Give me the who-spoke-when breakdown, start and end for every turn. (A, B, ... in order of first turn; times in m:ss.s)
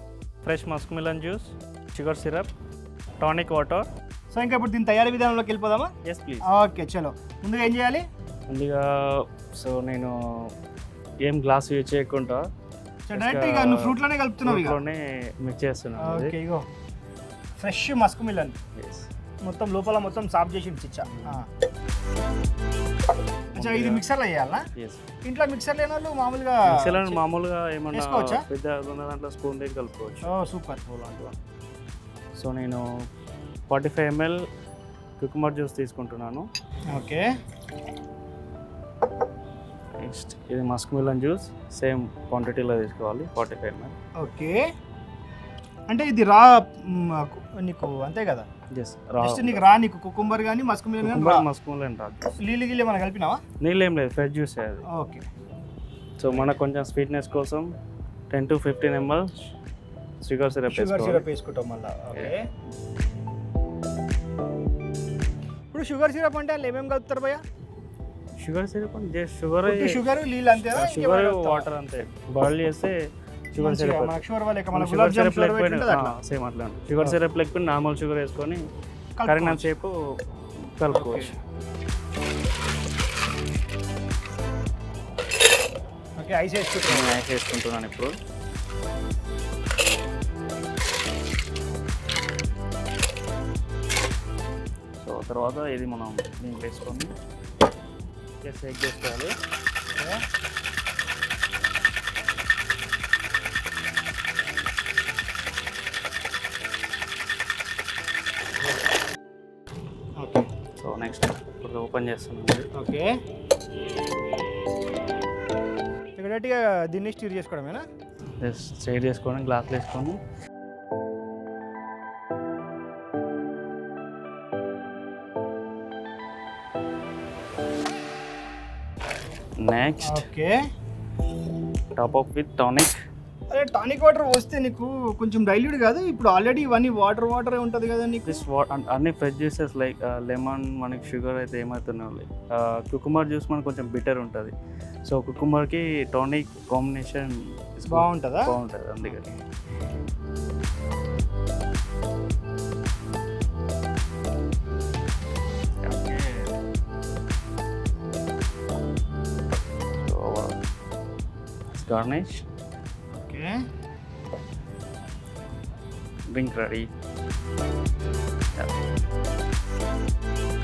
0:00.4-0:02.5 A
0:03.2-0:03.9 A
0:04.3-0:05.9 B
0:06.0-0:06.5 A
0:06.4-0:08.0 B
0:08.5-0:10.5 A
0:11.2-0:12.5 A
0:13.1-0:14.8 B
0:13.1-0:16.4 A
0:16.0-0:16.6 B
0:17.6-0:18.6 B
0:18.8-0:19.1 A
0:19.4-0:21.5 B
0:21.1-0:21.4 A
0:23.5-0:24.0 A
0:23.6-0:24.6 B
0:24.8-0:25.0 A
0:25.2-0:27.2 B
0:26.7-0:30.3 A
0:27.9-0:28.5 B
0:30.2-0:30.8 B
0:30.8-0:31.4 A
0:32.4-0:32.9 A
0:33.7-0:34.4 A
0:35.2-0:36.5 A
0:36.9-0:37.3 B
0:39.9-0:44.0 A
0:44.2-0:44.6 B
0:45.9-0:48.5 B
0:48.7-0:49.6 A
0:49.2-0:51.5 B
0:51.0-0:52.4 A
0:52.4-0:53.4 B
0:53.6-0:54.9 A
0:54.9-0:55.3 B
0:56.2-0:57.7 A
0:58.3-0:59.4 A
1:00.2-1:01.3 A
1:00.7-1:02.5 B
1:05.7-1:07.4 B
1:08.4-1:10.0 A
1:09.6-1:11.7 B
1:10.6-1:13.0 A
1:13.5-1:14.2 A
1:13.6-1:16.2 B
1:14.7-1:18.7 A
1:19.2-1:19.8 B
1:19.2-1:21.3 A
1:20.9-1:21.4 B
1:26.2-1:27.2 B
1:26.8-1:28.2 A
1:35.0-1:37.1 A
1:38.4-1:39.4 A
1:40.0-1:40.2 B
1:50.2-1:50.5 B
1:50.8-1:52.7 A
1:52.7-1:53.2 B
1:56.2-1:57.8 B
1:58.4-2:00.2 A
2:09.6-2:10.3 A
2:10.0-2:10.6 B
2:12.0-2:13.0 A
2:13.5-2:18.4 B
2:18.3-2:24.5 A
2:25.0-2:29.3 A
2:27.9-2:29.4 B
2:35.8-2:36.5 A
2:39.9-2:40.6 A
2:41.7-2:42.5 A
2:43.2-2:43.6 B
2:46.3-2:46.9 A